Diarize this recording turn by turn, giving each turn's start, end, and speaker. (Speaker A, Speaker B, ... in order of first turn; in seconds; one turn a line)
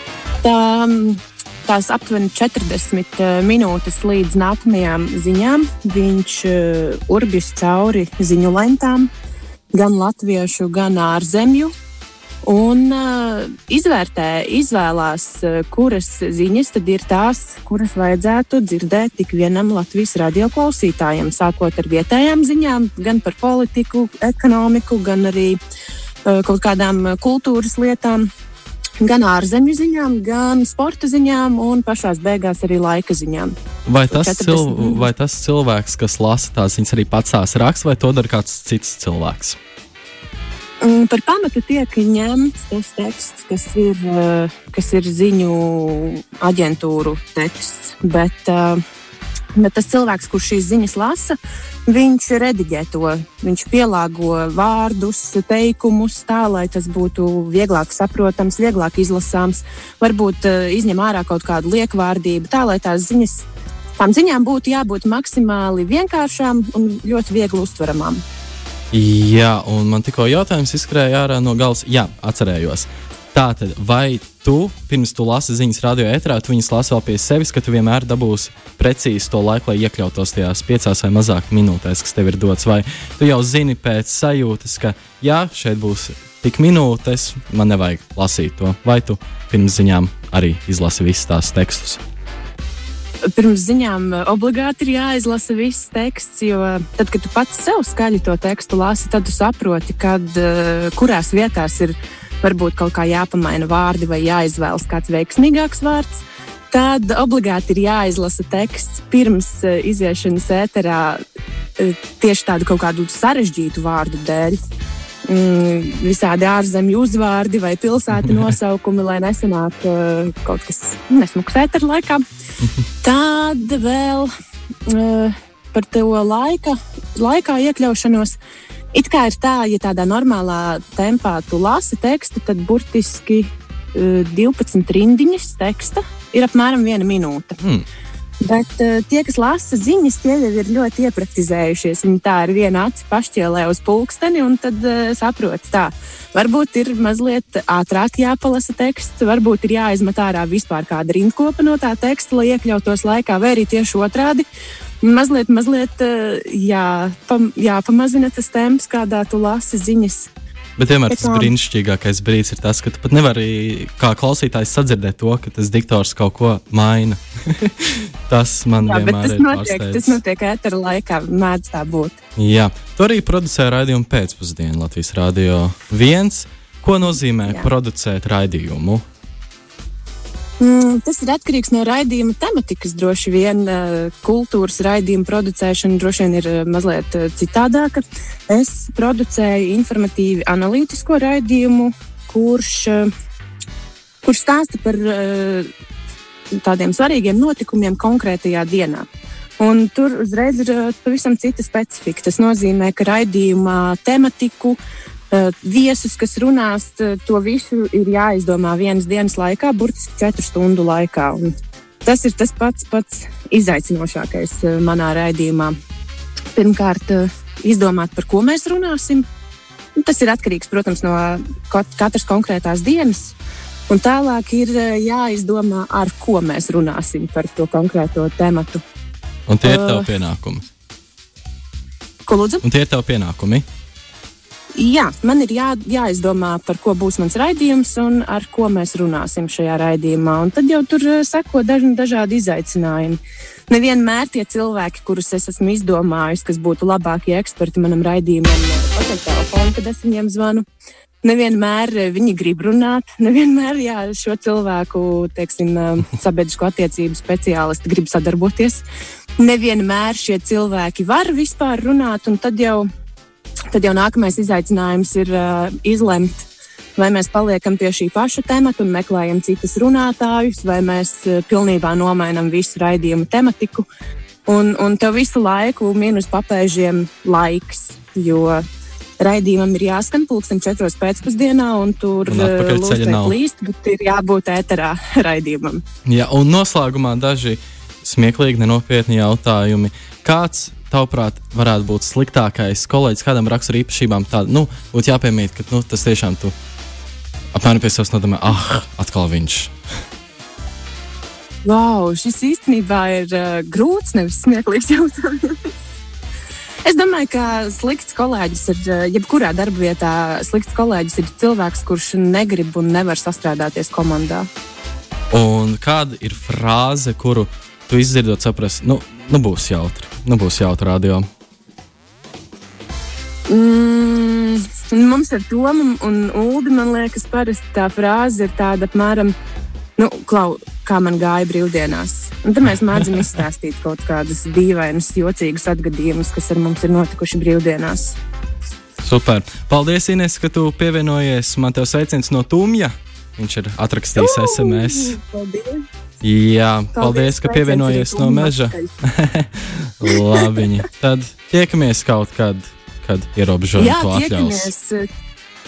Speaker A: 0.4-9.1
Speaker A: 9.7-11.7
Speaker A: 12.4-25.6
Speaker A: 26.2-28.3
Speaker A: 29.0-33.5
Speaker B: 33.9-39.6
Speaker A: 34.1-35.0
Speaker A: 40.8-48.8
Speaker A: 49.5-68.2
Speaker B: 68.9-92.0
Speaker A: 93.3-111.2
Speaker A: 111.8-114.5
Speaker A: 115.3-122.2
Speaker A: 123.0-124.3
Speaker A: 124.9-128.4
Speaker A: 128.9-137.6
Speaker B: 137.6-137.8
Speaker A: 138.4-154.4
Speaker A: 155.0-160.3
Speaker B: 160.8-170.2
Speaker A: 161.1-161.5
Speaker A: 168.8-172.2
Speaker B: 172.4-179.0
Speaker A: 180.6-193.1
Speaker A: 194.2-195.7
Speaker A: 196.6-199.0
Speaker A: 199.6-204.8
Speaker A: 205.3-211.5
Speaker A: 212.0-215.7
Speaker A: 216.5-219.2
Speaker A: 220.0-223.3
Speaker A: 223.9-228.8
Speaker B: 229.5-230.7
Speaker A: 229.6-230.1
Speaker A: 232.2-232.6
Speaker B: 232.6-233.6
Speaker A: 234.8-250.6
Speaker A: 251.2-258.8
Speaker A: 259.4-262.9
Speaker A: 263.7-273.9
Speaker A: 274.4-278.6
Speaker A: 279.2-285.8
Speaker B: 282.2-283.4
Speaker B: 286.1-296.5
Speaker B: 297.5-299.7
Speaker A: 301.6-305.7
Speaker A: 306.8-314.5
Speaker B: 315.3-321.2
Speaker A: 323.5-329.3
Speaker A: 330.0-338.2
Speaker B: 339.0-345.2
Speaker A: 344.1-345.8
Speaker B: 346.2-354.7
Speaker A: 346.9-348.9
Speaker A: 350.1-350.6
Speaker A: 353.8-355.0